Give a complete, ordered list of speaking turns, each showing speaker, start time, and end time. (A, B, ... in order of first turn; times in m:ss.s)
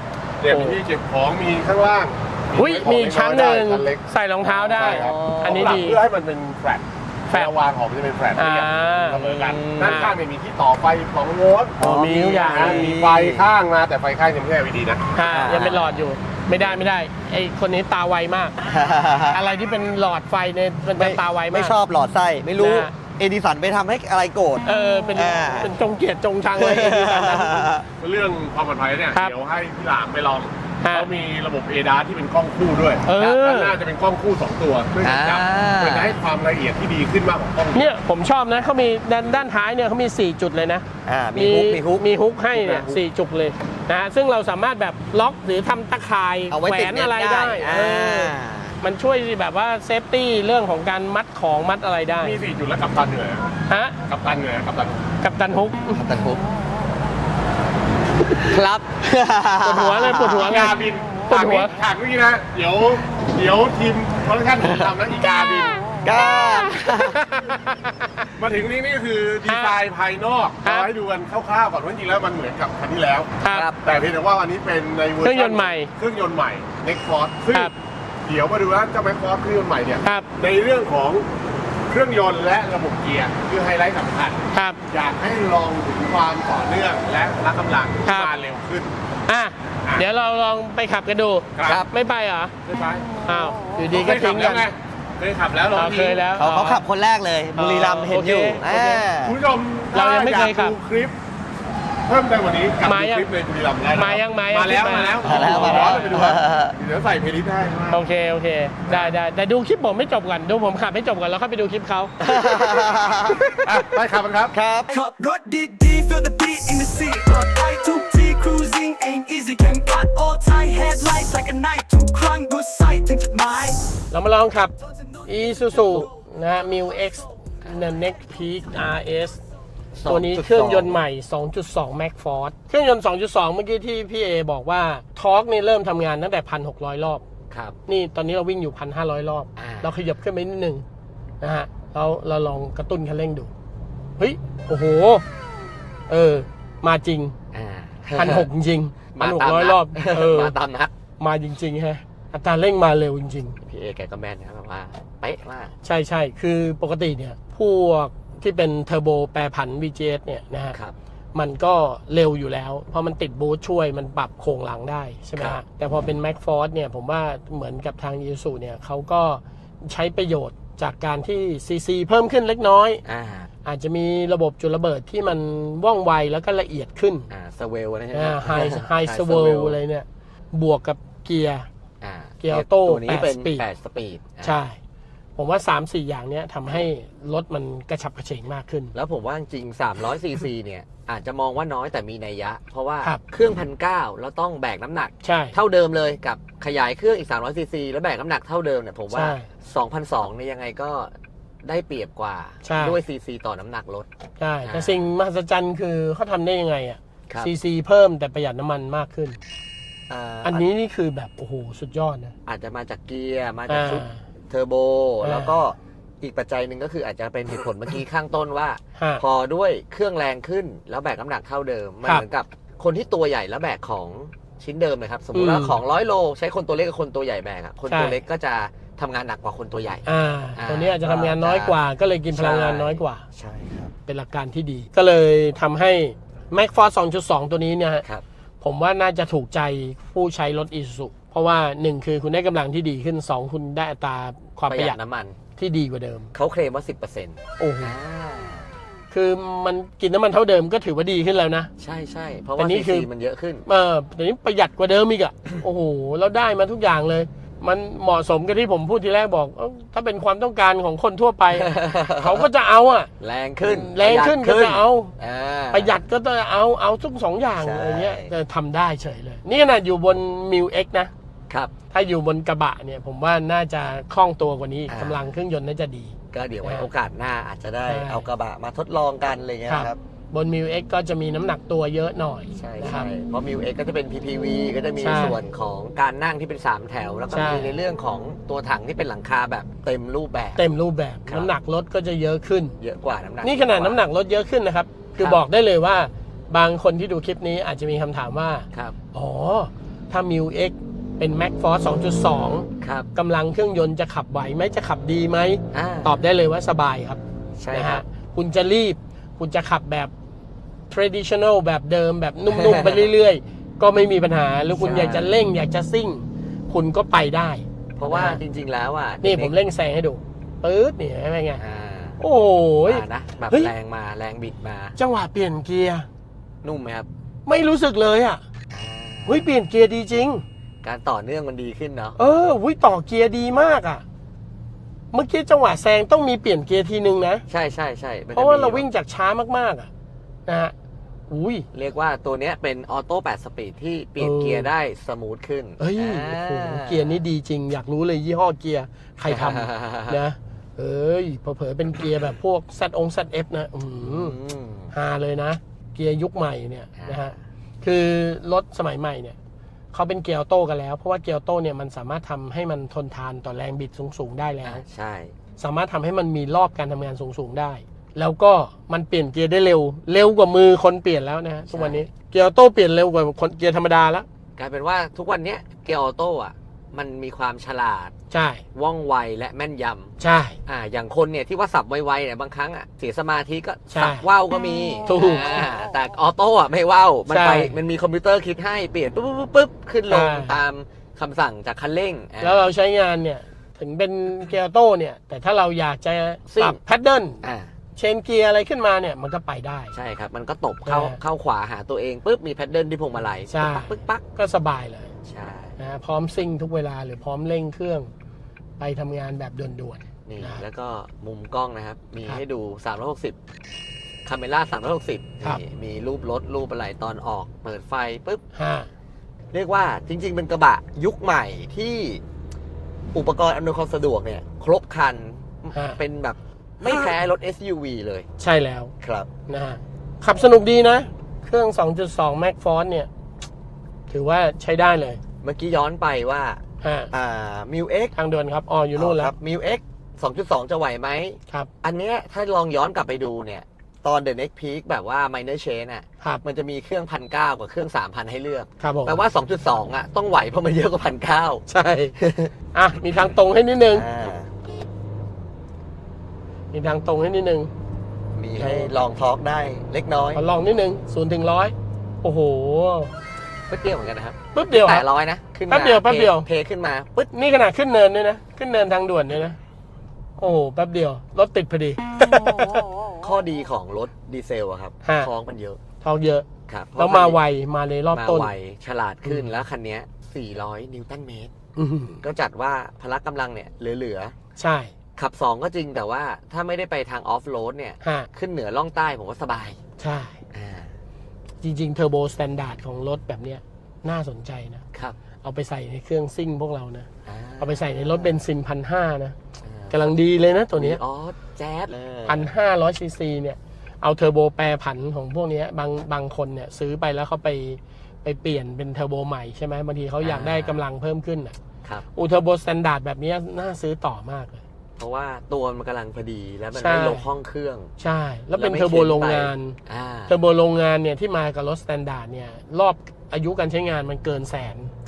0:00.4-0:04.0 A
0:00.5-0:00.8 B
0:02.6-0:06.0 B
0:04.5-0:05.9 C
0:04.8-0:15.1 A
0:05.1-0:05.4 D
0:08.4-0:09.2 B
0:09.2-0:10.0 C
0:09.8-0:10.1 B
0:11.8-0:13.5 D
0:11.9-0:12.8 B
0:15.1-0:18.6 B
0:15.3-0:15.8 D
0:15.3-0:16.0 C
0:18.6-0:19.4 D
0:19.3-0:21.8 B
0:21.0-0:25.7 D
0:22.6-0:22.9 B
0:24.6-0:27.7 B
0:26.6-0:27.8 D
0:28.0-0:37.9 A
0:33.0-0:33.8 B
0:35.0-0:36.1 C
0:37.7-0:52.4 B
0:41.0-0:42.1 D
0:42.5-0:43.0 A
0:46.5-0:48.8 D
0:52.2-0:55.0 A
0:53.7-0:54.0 B
0:55.2-0:56.0 B
0:55.9-0:56.4 D
0:58.5-0:59.0 C
0:59.0-1:00.6 D
0:59.6-1:00.7 B
1:00.3-1:05.8 A
1:01.3-1:01.8 B
1:06.0-1:07.2 D
1:06.2-1:08.2 B
1:08.4-1:17.7 A
1:09.4-1:09.8 B
1:10.6-1:10.9 B
1:13.4-1:13.7 B
1:13.5-1:13.8 C
1:15.2-1:15.9 B
1:18.2-1:21.2 A
1:20.0-1:20.3 B
1:21.9-1:28.9 A
1:24.5-1:24.8 B
1:28.0-1:28.3 B
1:29.3-1:32.5 B
1:31.6-1:31.8 A
1:32.6-1:33.1 A
1:33.2-1:34.7 B
1:33.9-1:36.3 A
1:35.7-1:36.8 B
1:36.4-1:39.4 D
1:37.6-1:39.0 B
1:39.2-1:41.1 A
1:39.9-1:40.8 B
1:42.1-1:48.0 A
1:42.8-1:43.3 B
1:44.0-1:46.2 B
1:45.2-1:46.8 D
1:47.9-1:52.1 B
1:52.2-1:53.8 D
1:53.6-1:54.5 A
1:54.5-1:54.9 D
1:54.9-2:03.9 E
2:04.1-2:04.7 B
2:05.2-2:06.0 E
2:05.2-2:09.4 B
2:07.6-2:07.9 C
2:09.9-2:11.0 C
2:10.1-2:17.2 B
2:17.5-2:17.8 C
2:17.9-2:20.8 B
2:19.6-2:19.9 C
2:21.4-2:23.5 B
2:24.2-2:25.2 B
2:26.1-2:27.3 B
2:27.5-2:28.5 C
2:28.1-2:30.5 B
2:29.2-2:30.9 C
2:31.2-2:33.6 B
2:33.6-2:35.7 C
2:35.8-2:40.8 B
2:41.3-2:53.0 B
2:53.0-2:53.5 C
2:53.6-2:57.3 B
2:57.3-2:59.8 C
2:58.1-3:01.7 B
3:02.0-3:04.6 C
3:02.4-3:03.6 B
3:04.4-3:04.8 B
3:05.4-3:08.9 B
3:08.9-3:24.1 C
3:15.2-3:15.6 B
3:19.1-3:19.5 B
3:22.6-3:23.0 B
3:24.4-3:29.4 B
3:24.6-3:25.0 C
3:30.1-3:30.7 C
3:30.4-3:32.3 B
3:32.4-3:50.0 C
3:33.7-3:34.2 B
3:35.2-3:35.5 B
3:39.0-3:39.2 B
3:45.3-3:45.8 B
3:47.9-3:48.2 B
3:50.0-3:53.2 B
3:50.6-3:51.8 C
3:52.3-3:53.9 C
3:54.1-3:58.0 B
3:58.6-4:05.0 B
4:04.7-4:05.4 C
4:05.6-4:06.3 B
4:06.3-4:08.7 C
4:07.6-4:07.9 B
4:09.1-4:11.7 B
4:11.8-4:13.6 C
4:12.6-4:13.1 B
4:13.6-4:23.1 B
4:21.5-4:22.5 C
4:23.2-4:25.9 C
4:23.6-4:25.1 B
4:25.7-4:31.1 B
4:27.6-4:28.3 C
4:31.9-4:36.9 B
4:34.9-4:35.3 C
4:36.3-4:39.8 C
4:37.8-4:38.2 B
4:39.7-4:43.1 B
4:39.7-4:40.0 D
4:42.6-4:50.6 C
4:45.0-4:45.4 B
4:47.3-4:47.7 B
4:50.6-4:52.8 B
4:51.2-4:51.5 C
4:52.8-4:54.0 C
4:53.4-5:07.2 B
5:02.8-5:03.1 C
5:05.7-5:06.2 C
5:07.6-5:08.0 C
5:07.7-5:10.1 B
5:10.9-5:18.4 B
5:12.5-5:13.1 C
5:14.8-5:15.3 C
5:18.0-5:19.5 C
5:19.2-5:21.6 B
5:21.6-5:22.2 C
5:22.2-5:23.7 B
5:22.8-5:25.0 C
5:25.0-5:26.1 B
5:26.6-5:27.1 C
5:27.5-5:28.4 B
5:28.7-5:29.4 C
5:29.2-5:30.4 B
5:30.8-5:32.2 C
5:32.2-5:34.0 B
5:35.1-5:37.4 B
5:37.5-5:38.8 C
5:38.3-5:39.9 B
5:40.5-5:40.7 B
5:41.3-5:41.7 B
5:41.7-5:47.2 C
5:44.2-5:44.7 B
5:45.8-5:54.3 B
5:49.3-5:50.2 C
5:54.0-5:54.9 C
5:54.9-5:59.4 B
5:57.0-5:57.4 C
5:59.9-6:04.8 B
6:04.6-6:05.3 C
6:05.6-6:14.2 B
6:11.7-6:12.1 C
6:14.6-6:18.1 C
6:18.3-6:18.6 B
6:18.8-6:32.6 C
6:20.2-6:20.6 B
6:23.9-6:24.3 B
6:25.0-6:25.7 B
6:27.3-6:27.8 B
6:30.1-6:30.5 B
6:32.4-6:37.4 B
6:36.5-6:36.8 C
6:37.4-6:37.7 C
6:38.0-6:39.9 B
6:39.9-6:44.2 C
6:40.8-6:41.2 B
6:43.5-6:45.1 B
6:45.2-6:45.8 C
6:45.8-6:48.1 B
6:48.8-6:50.6 B
6:50.2-6:53.4 C
6:54.2-6:58.4 C
6:58.5-6:58.9 B
6:59.5-7:02.2 C
7:03.1-7:08.3 C
7:05.7-7:06.0 B
7:06.8-7:07.1 B
7:08.4-7:08.9 B
7:09.0-7:09.3 C
7:09.5-7:13.1 B
7:14.1-7:15.2 B
7:15.4-7:16.6 C
7:16.8-7:17.1 B
7:17.1-7:18.1 C
7:18.1-7:19.3 B
7:19.0-7:32.5 C
7:28.8-7:29.1 B
7:31.7-7:32.1 B
7:32.7-7:34.0 B
7:33.9-7:34.5 C
7:36.7-7:37.7 B
7:38.4-7:40.4 C
7:38.6-7:38.9 B
7:40.3-7:43.1 B
7:43.7-7:47.3 C
7:44.5-7:45.0 B
7:45.7-7:46.5 B
7:47.3-7:49.6 B
7:50.4-7:52.8 B
7:53.2-7:55.8 C
7:55.0-7:55.3 B
7:56.0-7:56.5 B
7:56.7-7:57.4 C
7:57.0-7:58.5 B
7:58.1-8:01.5 C
7:59.2-7:59.5 B
8:01.8-8:02.2 B
8:02.2-8:04.3 C
8:04.6-8:04.9 B
8:05.2-8:09.8 C
8:08.0-8:08.3 B
8:10.0-8:10.4 B
8:10.5-8:11.0 C
8:11.6-8:14.8 B
8:15.4-8:17.1 B
8:17.2-8:18.4 C
8:17.6-8:19.4 B
8:19.6-8:20.1 C
8:19.9-8:21.0 B
8:20.8-8:22.5 C
8:22.2-8:31.5 B
8:30.2-8:30.8 C
8:32.1-8:34.6 B
8:35.0-8:37.9 C
8:36.8-8:37.3 B
8:38.0-8:39.8 B
8:38.6-8:40.4 C
8:40.3-8:44.9 B